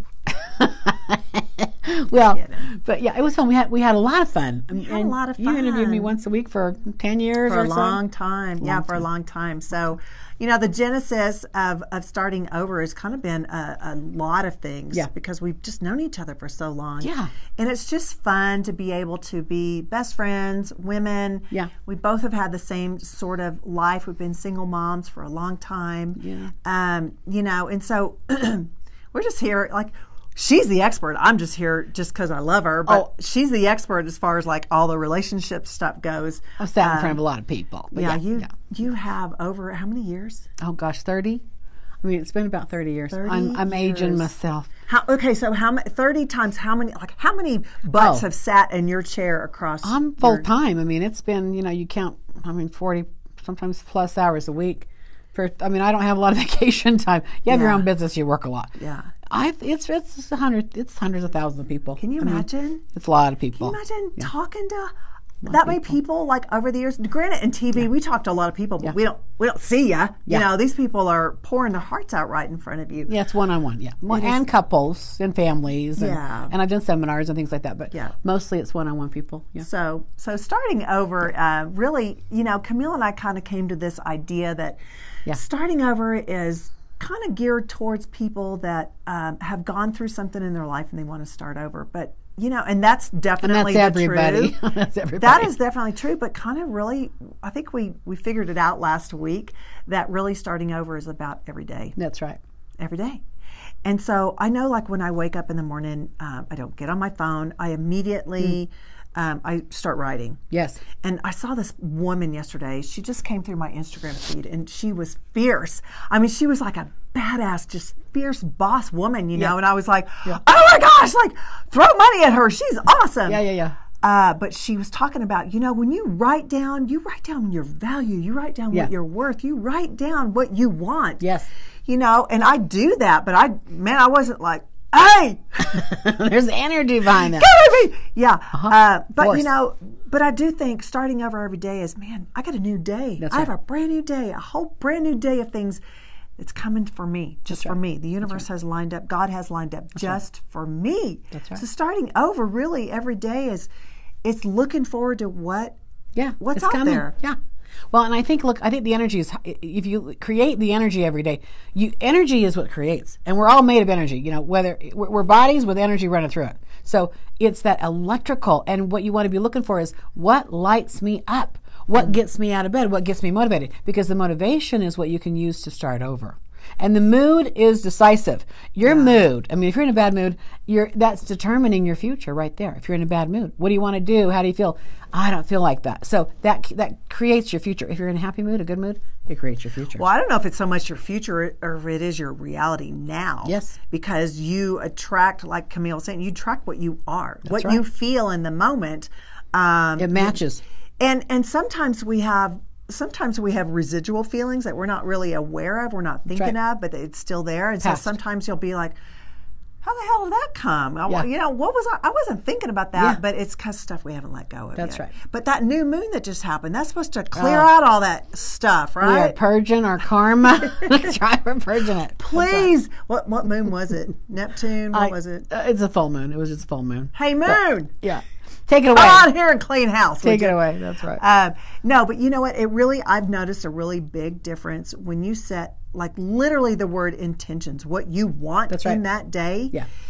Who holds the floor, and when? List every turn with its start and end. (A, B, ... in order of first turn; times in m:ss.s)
0:00.3-0:08.0 A
0:02.3-0:02.7 B
0:04.7-0:06.1 B
0:07.4-0:37.2 B
0:08.6-0:09.0 A
0:17.0-0:17.3 A
0:26.2-0:26.5 A
0:36.6-0:38.5 A
0:37.9-0:40.5 B
0:40.6-0:41.4 A
0:42.0-0:44.7 A
0:43.1-0:44.3 B
0:44.9-0:50.5 B
0:47.9-0:48.2 A
0:49.8-0:58.7 A
0:57.5-0:57.9 B
0:58.8-0:59.1 B
0:59.3-1:04.3 A
1:02.0-1:02.8 B
1:03.6-1:04.9 B
1:05.4-1:06.0 A
1:05.4-1:13.1 B
1:13.1-1:19.7 A
1:14.1-1:14.4 B
1:16.0-1:16.5 B
1:19.6-1:34.5 B
1:33.4-1:35.5 A
1:35.2-1:42.0 B
1:42.0-1:42.4 A
1:42.8-1:43.2 B
1:43.8-1:50.4 B
1:50.5-1:50.8 A
1:51.0-2:03.4 B
2:03.2-2:03.8 A
2:04.0-2:11.2 B
2:11.2-2:11.5 A
2:11.8-2:15.8 B
2:15.6-2:17.5 A
2:17.1-2:25.8 B
2:18.5-2:19.5 A
2:23.2-2:23.5 A
2:26.4-2:33.7 B
2:27.5-2:28.4 A
2:31.3-2:31.6 A
2:34.2-2:35.8 B
2:36.2-2:37.4 A
2:36.4-2:37.1 B
2:37.9-3:10.0 A
2:58.8-2:59.2 B
3:10.0-3:20.4 B
3:13.4-3:13.8 A
3:17.4-3:17.8 A
3:20.0-3:20.6 A
3:21.0-3:28.9 B
3:26.3-3:26.6 A
3:27.8-3:28.2 A
3:29.8-3:39.4 B
3:33.0-3:33.2 A
3:34.8-3:35.1 A
3:37.3-3:37.7 A
3:39.0-3:42.7 A
3:42.2-3:45.5 B
3:44.9-3:49.3 A
3:47.1-3:47.9 B
3:48.9-3:50.6 B
3:50.2-3:51.2 A
3:51.2-3:59.7 B
3:58.7-3:59.0 A